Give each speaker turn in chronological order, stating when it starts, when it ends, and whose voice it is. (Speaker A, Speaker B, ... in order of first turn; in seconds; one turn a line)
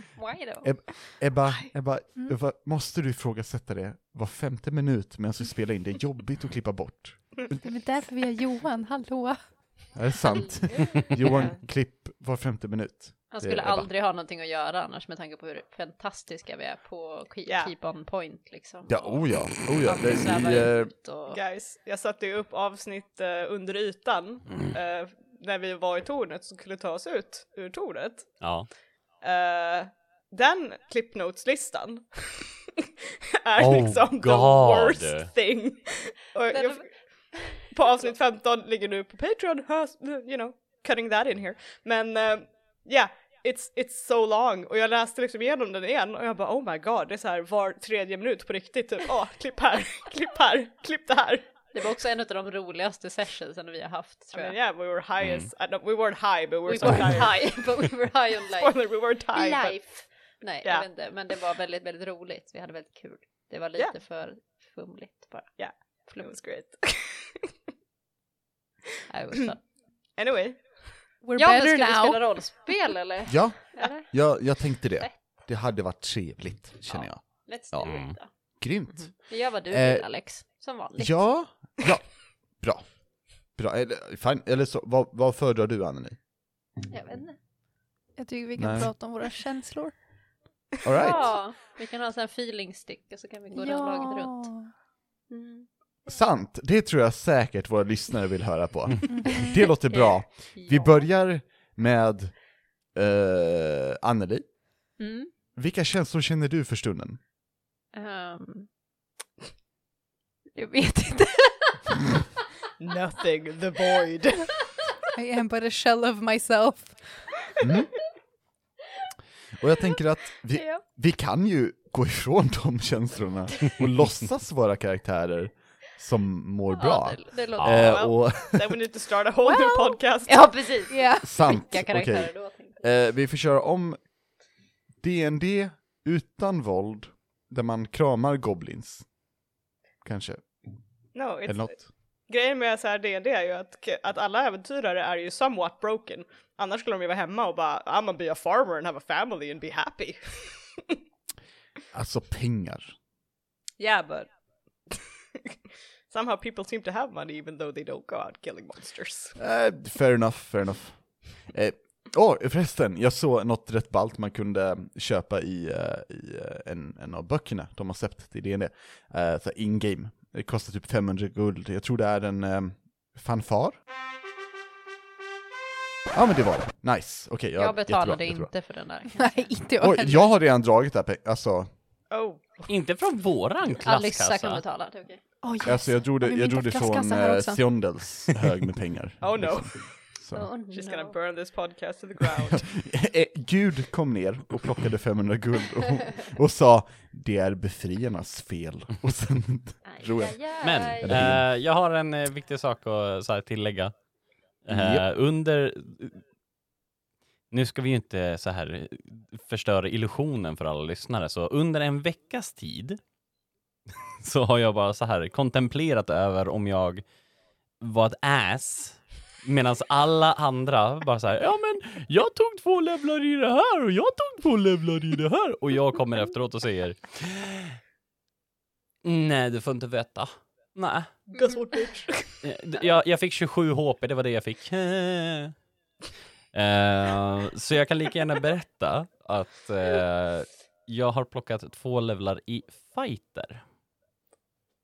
Speaker A: 0.1-1.2
Speaker B: 0.6-7.6
Speaker C: 7.6-9.9
Speaker B: 9.9-13.9
Speaker A: 11.3-11.5
Speaker D: 11.3-11.6
Speaker A: 13.3-21.4
Speaker D: 17.4-17.7
Speaker B: 18.9-20.9
Speaker D: 21.3-28.5
Speaker E: 28.4-28.7
Speaker D: 29.2-32.7
Speaker D: 33.4-51.6
Speaker E: 33.6-35.3
Speaker A: 36.5-37.7
Speaker A: 51.7-54.6
Speaker D: 54.3-57.9
Speaker E: 55.2-55.5
Speaker A: 56.7-66.4
Speaker D: 58.5-60.9
Speaker D: 65.6-67.4
Speaker A: 69.1-69.8
Speaker D: 70.1-70.9
Speaker C: 71.2-72.2
Speaker A: 71.3-75.4
Speaker B: 73.2-86.2
Speaker A: 76.9-81.5
Speaker E: 77.8-78.1
Speaker A: 86.9-87.4
Speaker C: 88.2-90.0
Speaker B: 88.6-88.9
Speaker B: 90.8-91.4
Speaker A: 90.9-96.0
Speaker C: 93.5-94.7
Speaker B: 96.1-104.6
Speaker A: 99.9-101.0
Speaker A: 105.0-105.3
Speaker B: 105.5-107.2
Speaker A: 107.9-108.7
Speaker A: 110.5-111.8
Speaker D: 112.8-114.6
Speaker C: 115.1-117.3
Speaker B: 117.6-117.9
Speaker B: 119.5-128.8
Speaker A: 120.5-120.8
Speaker A: 126.7-128.2
Speaker E: 127.6-127.9
Speaker D: 127.7-130.6
Speaker C: 129.5-130.0
Speaker A: 130.2-132.8
Speaker C: 130.9-131.4
Speaker B: 131.2-134.2
Speaker B: 135.0-139.3
Speaker B: 140.0-140.6
Speaker D: 141.1-150.9
Speaker B: 141.4-141.8
Speaker B: 151.9-152.9
Speaker D: 153.8-154.9
Speaker D: 156.1-159.4
Speaker B: 159.4-173.8
Speaker B: 176.1-178.5
Speaker A: 177.6-179.5
Speaker C: 179.1-180.3
Speaker B: 179.8-181.7
Speaker D: 182.1-182.7
Speaker E: 182.7-184.6
Speaker A: 183.8-185.2
Speaker C: 185.4-187.7
Speaker B: 185.6-190.5
Speaker D: 189.2-192.8
Speaker A: 190.3-191.2
Speaker B: 192.5-201.5
Speaker A: 199.8-201.3
Speaker E: 200.6-206.2
Speaker B: 204.7-205.0
Speaker E: 207.5-213.0
Speaker E: 214.2-217.1
Speaker E: 217.8-227.8
Speaker E: 229.0-231.3
Speaker D: 231.3-232.4
Speaker E: 232.4-235.5
Speaker E: 236.5-243.6